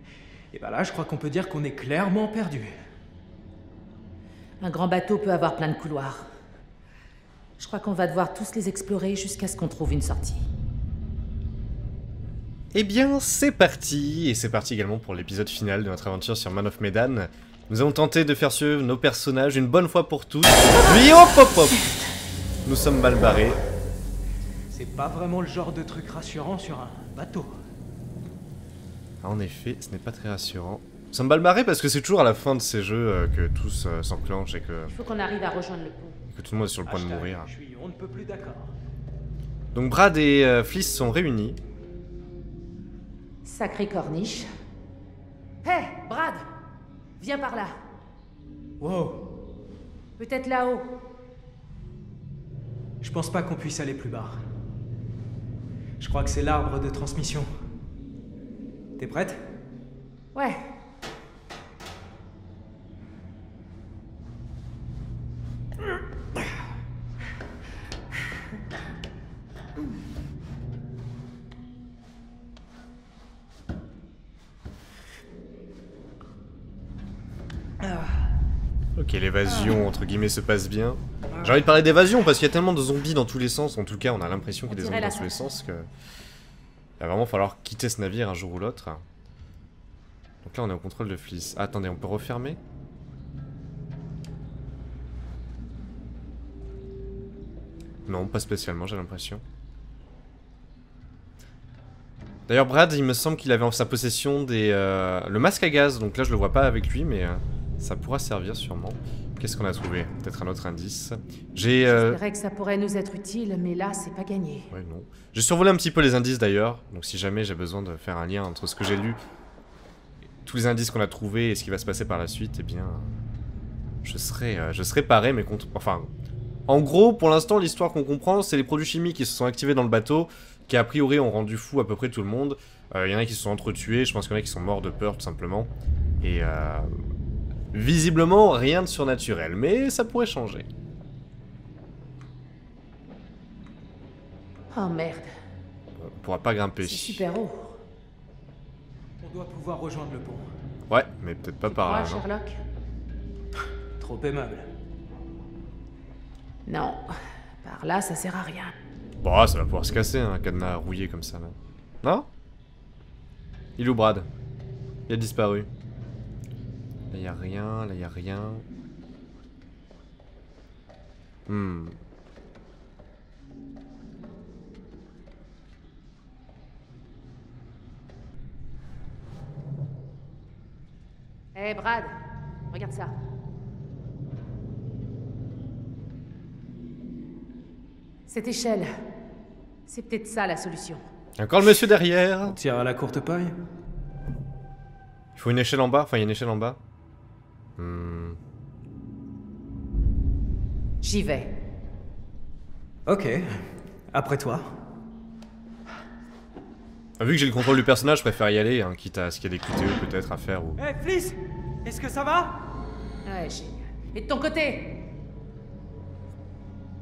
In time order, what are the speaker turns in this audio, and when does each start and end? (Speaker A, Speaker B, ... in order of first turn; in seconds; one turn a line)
Speaker A: 0.5-2.7
Speaker B: 4.6-6.3
Speaker B: 7.6-10.4
Speaker C: 12.7-21.8
Speaker C: 22.6-23.6
Speaker A: 24.7-27.6
Speaker C: 29.2-34.9
Speaker B: 34.9-36.2
Speaker C: 36.3-37.5
Speaker A: 36.9-38.7
Speaker C: 39.7-41.6
Speaker B: 43.4-44.5
Speaker B: 45.6-46.4
Speaker B: 47.2-47.7
Speaker A: 48.8-49.2
Speaker B: 50.2-50.9
Speaker A: 53.0-54.4
Speaker A: 56.0-57.5
Speaker A: 59.0-59.4
Speaker B: 60.3-60.6
Speaker C: 79.0-85.9
Speaker B: 84.7-85.5
Speaker C: 87.0-89.0
Speaker C: 90.4-92.6
Speaker C: 98.0-99.4
Speaker C: 102.5-112.2
Speaker B: 111.8-114.7
Speaker C: 114.7-119.2
Speaker C: 120.4-123.2
Speaker C: 124.0-126.1
Speaker C: 126.7-136.9
Speaker C: 137.7-140.7
Speaker B: 144.7-145.3
Speaker C: 146.0-147.2
Speaker B: 146.8-147.8
Speaker A: 149.2-150.5
Speaker C: 150.9-152.2
Speaker B: 151.7-152.6
Speaker A: 154.0-154.7
Speaker B: 156.7-157.1
Speaker B: 157.6-158.7
Speaker C: 159.2-162.3
Speaker C: 163.8-164.3
Speaker C: 165.1-165.7
Speaker C: 167.1-168.7
Speaker C: 171.5-172.0
Speaker B: 181.5-182.1
Speaker B: 182.7-183.1
Speaker B: 188.3-188.9
Speaker B: 189.9-191.0
Speaker C: 191.4-192.6
Speaker A: 192.4-193.5
Speaker C: 195.3-196.8
Speaker C: 197.8-198.4
Speaker B: 201.0-201.5
Speaker A: 203.1-204.7
Speaker C: 207.2-210.8
Speaker A: 210.8-212.6
Speaker B: 213.2-215.0